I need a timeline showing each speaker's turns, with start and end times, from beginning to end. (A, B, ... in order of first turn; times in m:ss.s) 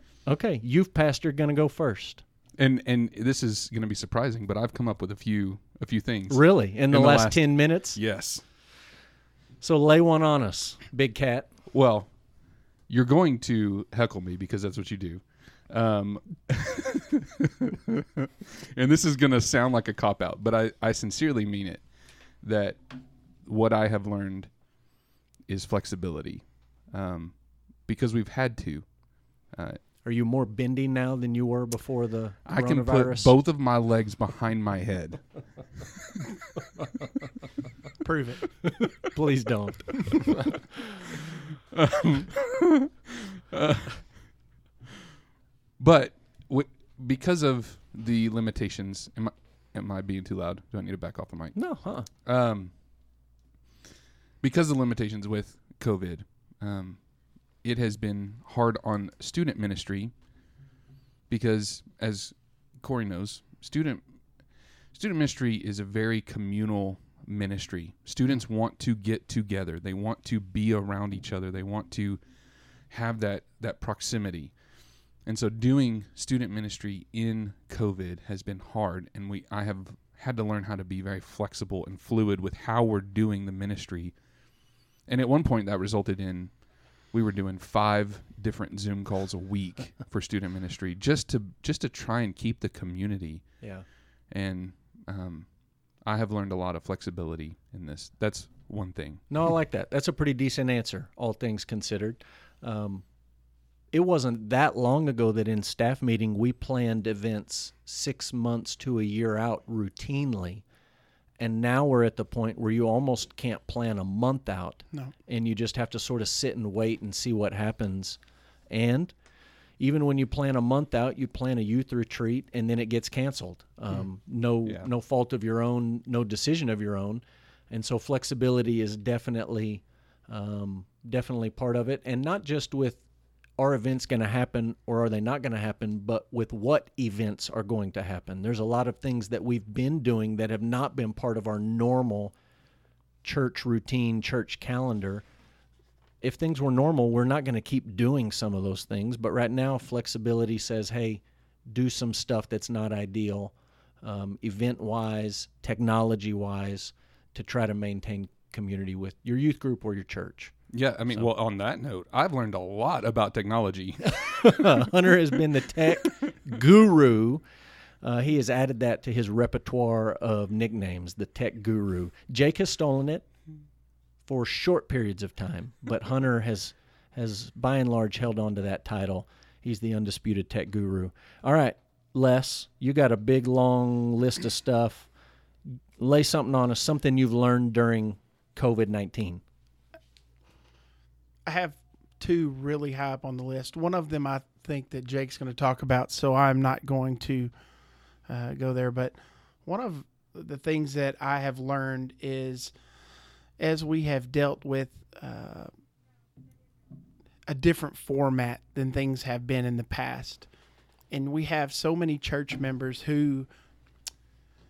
0:00.3-0:02.2 A
0:02.6-0:08.4 B
0:06.3-0:08.0 A
0:09.6-0:11.5 A
0:11.7-0:12.2 B
0:12.9-0:24.6 B
0:25.5-0:29.8 B
0:30.0-0:33.3 A
0:32.5-0:35.9 B
0:38.0-0:38.6 C
0:39.0-0:40.3 A
0:41.7-0:42.7 B
0:43.5-0:44.3 B
0:45.8-0:52.8 B
0:51.6-0:52.1 A
0:54.4-1:00.2 B
1:01.3-1:12.3 B
1:12.8-1:14.6 B
1:15.1-1:24.2 B
1:25.0-1:39.3 B
1:33.6-1:33.9 A
1:39.3-1:43.0 A
1:43.9-1:50.6 A
1:51.4-1:58.2 A
1:58.7-1:59.1 A
1:59.8-2:13.0 A
2:13.6-2:22.3 A
2:23.2-2:25.2 A
2:26.2-2:40.6 A
2:40.7-2:44.8 B
2:44.1-2:47.4 A
2:48.0-2:53.3 A
2:54.2-3:05.1 A
3:06.0-3:09.4 A
3:11.5-3:17.5 C
3:18.3-3:22.7 C
3:23.6-3:25.7 C
3:27.5-3:30.5 C
3:31.1-3:33.5 C